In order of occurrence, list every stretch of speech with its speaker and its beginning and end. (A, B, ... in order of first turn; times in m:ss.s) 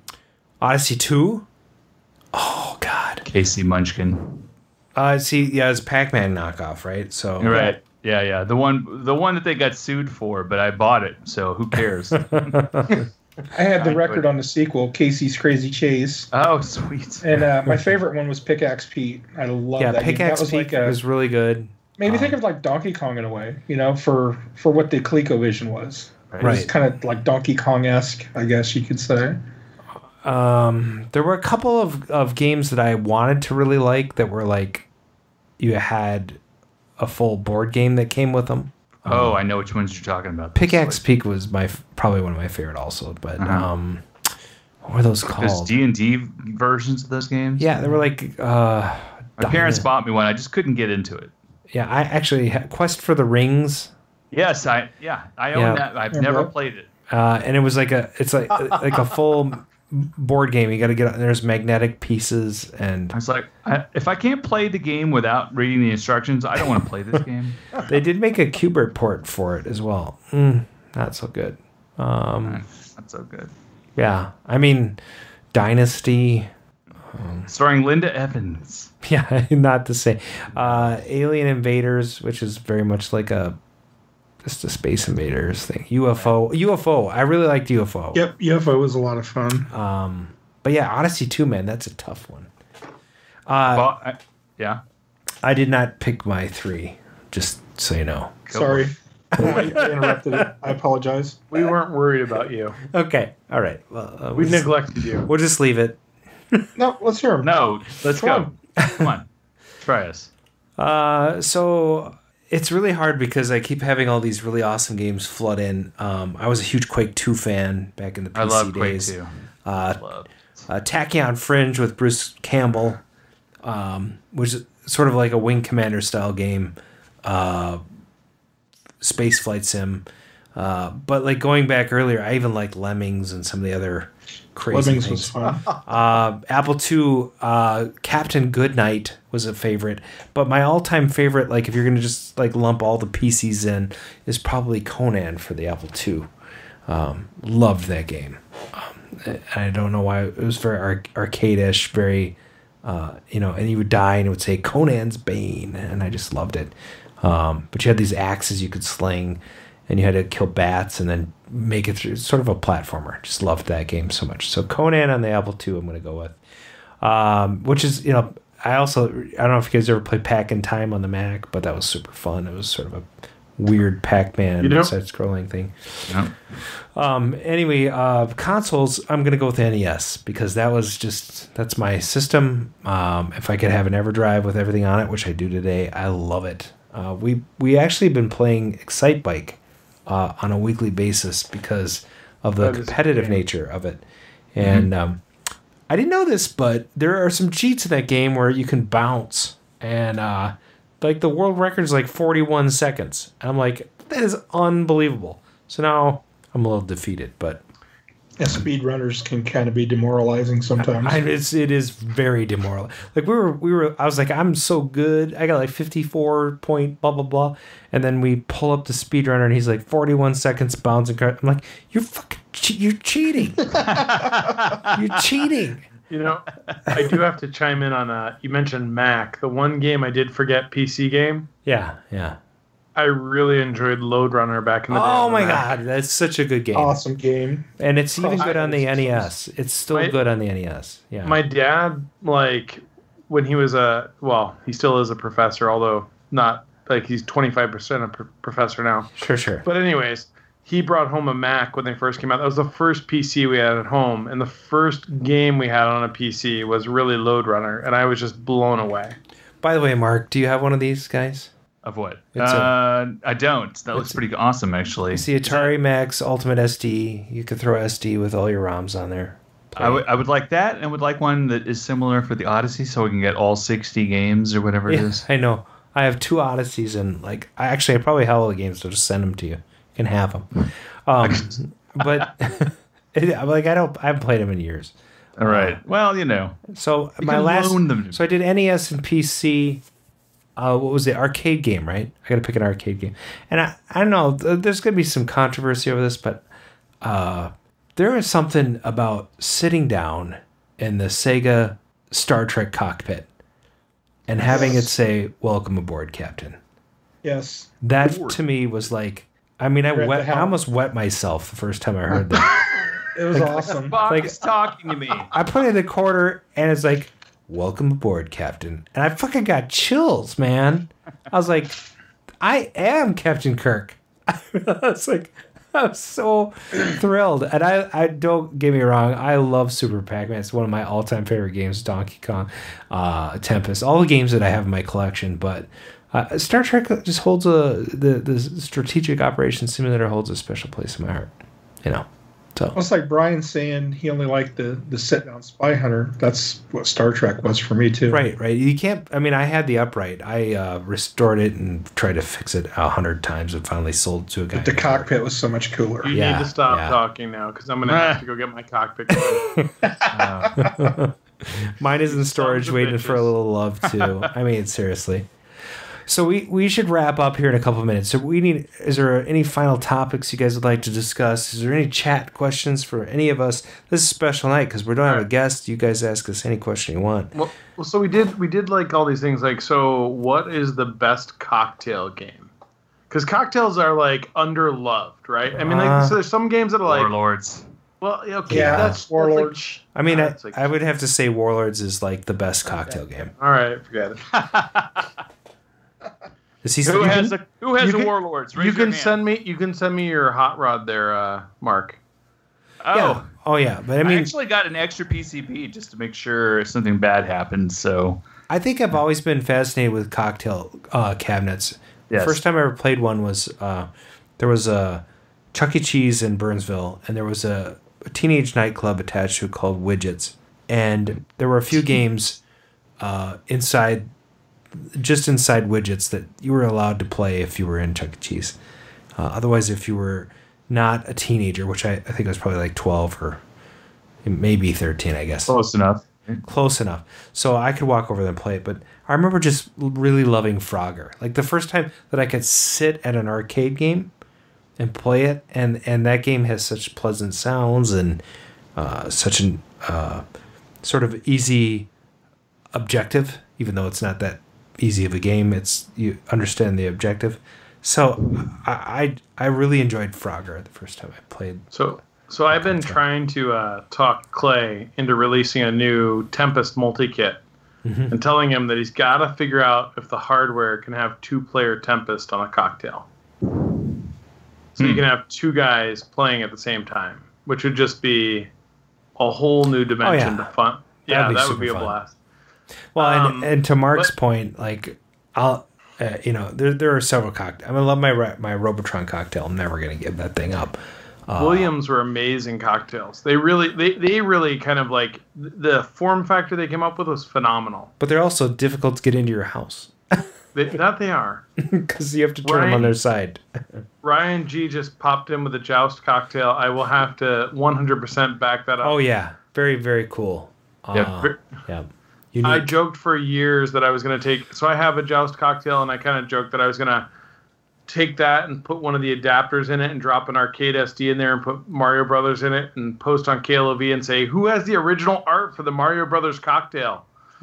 0:00.6-0:01.4 A
0:02.3-0:03.2 A
0:03.3-0:04.5 B
0:04.9-0:07.6 A
0:07.4-0:12.6 B
0:07.5-0:07.7 C
0:12.3-0:13.0 A
0:13.5-0:16.3 C
0:13.7-0:14.2 B
0:16.3-0:17.3 B
0:17.2-0:21.0 C
0:19.8-0:22.4 A
0:22.0-0:29.4 C
0:26.3-0:26.6 B
0:26.4-0:26.7 A
0:30.2-0:34.8 A
0:35.6-0:36.4 A
0:37.0-0:39.4 A
0:39.1-0:41.0 B
0:40.6-0:44.0 A
0:43.4-0:43.6 B
0:44.8-0:45.7 A
0:45.4-0:47.7 B
0:47.6-0:49.9 A
0:49.4-0:51.3 B
0:51.7-0:53.9 A
0:54.3-0:56.9 B
0:55.5-0:55.8 A
0:56.1-0:56.5 C
0:57.1-1:03.2 A
1:03.1-1:07.6 B
1:07.9-1:12.6 A
1:12.4-1:13.5 B
1:14.0-1:15.0 A
1:15.5-1:16.5 A
1:17.1-1:17.5 A
1:17.5-1:18.9 B
1:19.0-1:23.6 A
1:20.6-1:20.9 B
1:24.4-1:28.2 A
1:28.1-1:29.7 C
1:29.7-1:32.5 A
1:33.5-1:33.9 A
1:33.7-1:34.8 B
1:35.4-1:38.4 A
1:38.5-1:38.9 B
1:38.5-1:41.5 C
1:39.4-1:39.9 A
1:41.5-1:42.8 D
1:42.9-1:46.0 A
1:44.4-1:45.3 D
1:46.8-1:47.6 C
1:47.4-1:49.3 B
1:48.2-1:48.5 C
1:48.8-1:49.1 A
1:49.8-1:50.3 B
1:50.8-2:00.0 A
1:58.4-2:00.3 B
2:00.7-2:03.0 A
2:03.6-2:07.8 A
2:09.0-2:26.3 A
2:14.7-2:15.7 C
2:26.9-2:46.4 A
2:47.0-2:56.2 A
2:54.6-2:54.9 D
2:56.9-3:14.0 A
3:12.6-3:13.4 D
3:14.6-3:15.2 A
3:14.6-3:14.9 B
3:15.9-3:27.6 A
3:28.4-3:31.2 C
3:30.8-3:43.9 A
3:43.8-3:45.0 B
3:44.9-3:45.9 A
3:46.1-3:51.4 D
3:51.6-3:52.4 A
3:52.9-3:55.8 D
3:54.9-3:57.0 A
3:56.7-3:59.3 C
3:57.8-4:01.4 A
3:58.4-3:58.7 D
3:59.9-4:00.2 D
4:01.2-4:09.1 D
4:09.2-4:09.6 A
4:09.6-4:19.2 D
4:19.6-4:21.5 A
4:21.8-4:25.2 B
4:22.4-4:22.7 A
4:23.9-4:24.2 A
4:25.1-4:30.0 A
4:29.8-4:35.2 B
4:34.9-4:40.5 A
4:41.1-4:45.8 A
4:41.2-4:42.2 B
4:45.4-4:46.6 B
4:46.7-4:49.8 A
4:47.2-4:48.2 B
4:50.6-4:56.4 A
4:57.0-5:03.3 A
5:04.3-5:06.6 A
5:04.4-5:04.9 C
5:07.2-5:07.7 C
5:07.8-5:12.6 A
5:09.9-5:10.6 C
5:13.1-5:14.0 C
5:13.3-5:14.4 A
5:13.7-5:15.3 B
5:15.3-5:21.7 A
5:22.4-5:41.3 A
5:41.8-5:42.8 A
5:42.7-5:48.2 C
5:48.1-5:55.1 A
5:54.6-5:56.1 C
5:56.0-5:59.5 D
5:56.1-5:57.0 A
5:57.9-5:58.2 B
5:59.3-6:05.3 A
6:00.1-6:00.6 B
6:02.1-6:03.3 D
6:03.9-6:04.2 B
6:06.1-6:17.3 A
6:17.3-6:22.5 D
6:23.1-6:27.1 D
6:25.6-6:26.2 A
6:26.9-6:27.6 B
6:28.0-6:30.7 D
6:28.5-6:29.0 A
6:28.5-6:29.6 C
6:29.9-6:33.3 A
6:33.4-6:34.2 D
6:34.3-6:35.0 B
6:36.6-6:37.4 A
6:36.8-6:39.2 B
6:37.8-6:42.0 D
6:42.8-6:43.2 B
6:42.9-6:44.3 A
6:44.0-6:48.2 B
6:48.5-6:53.9 A
6:52.1-6:52.4 B
6:54.4-7:02.4 A
7:03.0-7:04.1 A
7:04.7-7:08.6 A
7:09.2-7:13.4 A
7:14.2-7:15.6 A
7:15.5-7:16.4 B
7:16.4-7:24.1 A
7:24.8-7:28.2 A
7:28.8-7:30.2 A
7:30.8-7:31.9 A
7:32.7-7:41.6 A
7:41.7-7:47.4 D
7:42.5-7:43.0 A
7:47.8-7:48.2 A
7:48.1-7:53.1 D
7:54.8-7:58.5 D
7:54.8-7:55.0 B
7:59.2-8:02.2 D
8:00.0-8:00.5 A
8:01.1-8:02.0 A
8:02.9-8:11.7 A
8:03.0-8:04.1 D
8:11.4-8:17.9 D
8:18.0-8:20.2 A
8:20.5-8:21.4 D
8:21.6-8:23.8 A
8:22.4-8:22.9 D
8:24.0-8:29.0 D
8:28.8-8:32.7 A
8:32.4-8:37.1 D
8:37.9-8:47.0 D